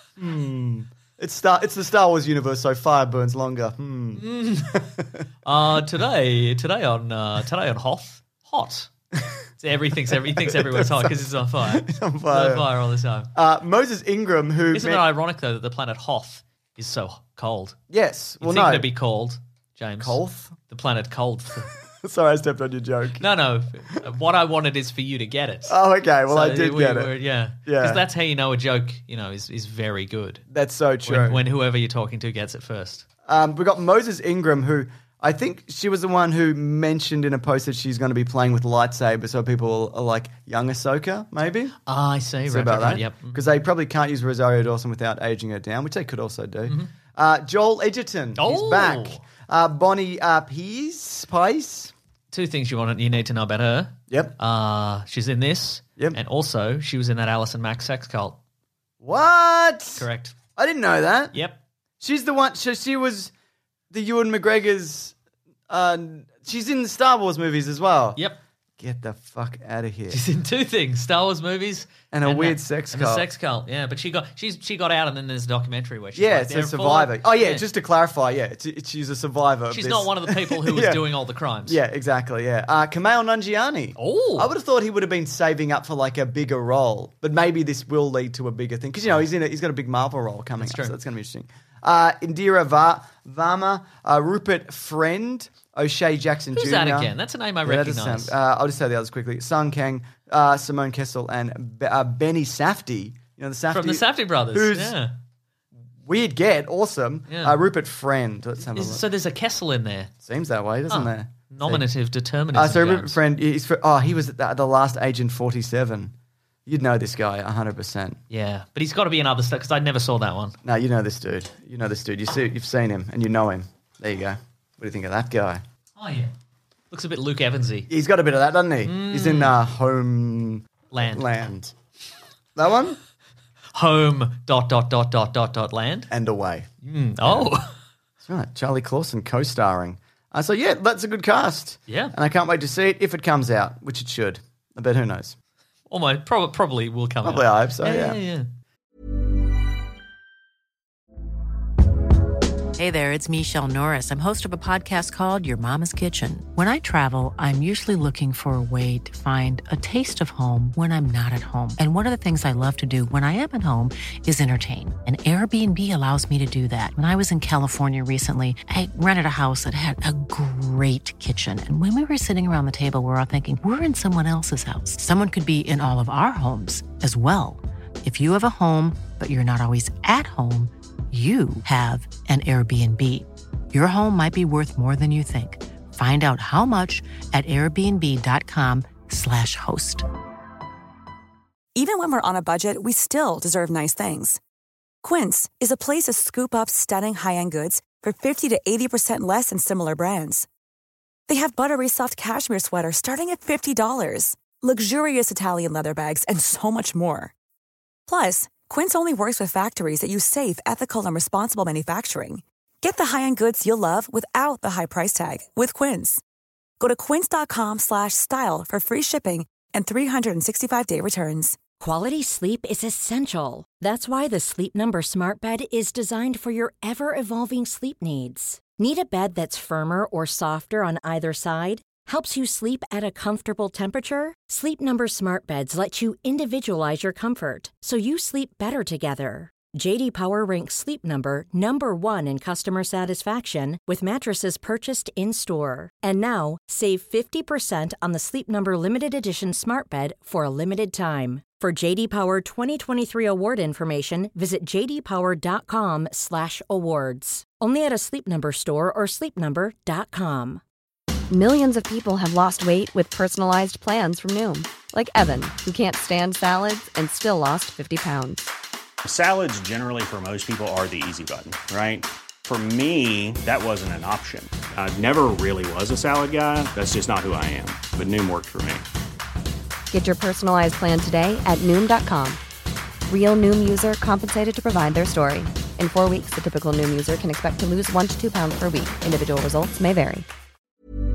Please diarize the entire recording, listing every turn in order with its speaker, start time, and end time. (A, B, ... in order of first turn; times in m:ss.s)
0:00.2-0:05.2 A
0:04.2-0:04.9 B
0:05.4-0:08.9 B
0:09.6-0:13.3 B
0:10.1-0:12.7 A
0:13.4-0:15.1 A
0:14.7-0:17.8 B
0:17.9-0:18.9 A
0:18.4-0:21.7 B
0:20.0-0:20.6 A
0:22.0-0:23.2 A
0:23.2-0:25.8 B
0:25.7-0:27.1 A
0:26.3-0:30.4 B
0:27.6-0:28.0 A
0:30.5-0:31.4 A
0:31.0-0:33.0 B
0:33.3-0:41.8 A
0:41.9-0:43.4 B
0:42.5-0:51.9 A
0:46.7-0:46.9 B
0:48.4-0:49.2 B
0:52.3-0:58.4 B
0:54.1-0:54.4 A
0:59.0-1:01.4 A
1:00.0-1:00.4 B
1:02.0-1:03.3 A
1:03.9-1:05.2 A
1:05.7-1:08.2 A
1:08.8-1:10.2 A
1:10.1-1:17.6 B
1:12.1-1:13.3 A
1:16.2-1:21.0 A
1:19.7-1:21.8 B
1:21.7-1:45.0 A
1:24.0-1:24.5 B
1:30.6-1:30.9 B
1:36.6-1:38.3 B
1:43.7-1:45.1 B
1:46.0-1:49.0 A
1:47.3-1:47.6 B
1:48.7-1:50.1 B
1:50.2-1:51.8 A
1:50.9-1:53.2 B
1:52.5-1:56.1 A
1:56.7-1:58.2 A
1:58.3-2:00.6 B
2:00.6-2:05.6 A
2:06.0-2:06.3 B
2:06.9-2:07.9 B
2:07.9-2:11.7 A
2:08.8-2:09.5 B
2:10.9-2:11.3 B
2:12.6-2:13.0 A
2:13.8-2:16.1 B
2:16.1-2:16.7 A
2:16.8-2:17.8 B
2:17.2-2:17.5 A
2:18.2-2:25.4 A
2:21.9-2:22.1 B
2:25.9-2:28.5 B
2:27.2-2:28.2 A
2:32.8-3:10.1 C
3:11.8-3:14.4 D
3:15.0-3:20.5 D
3:21.3-3:27.3 D
3:28.1-3:36.2 D
3:36.8-3:41.6 D
3:41.8-4:20.6 E
4:21.3-4:28.5 F
4:29.0-4:38.9 G
4:39.9-4:42.4 F
4:43.1-4:50.3 F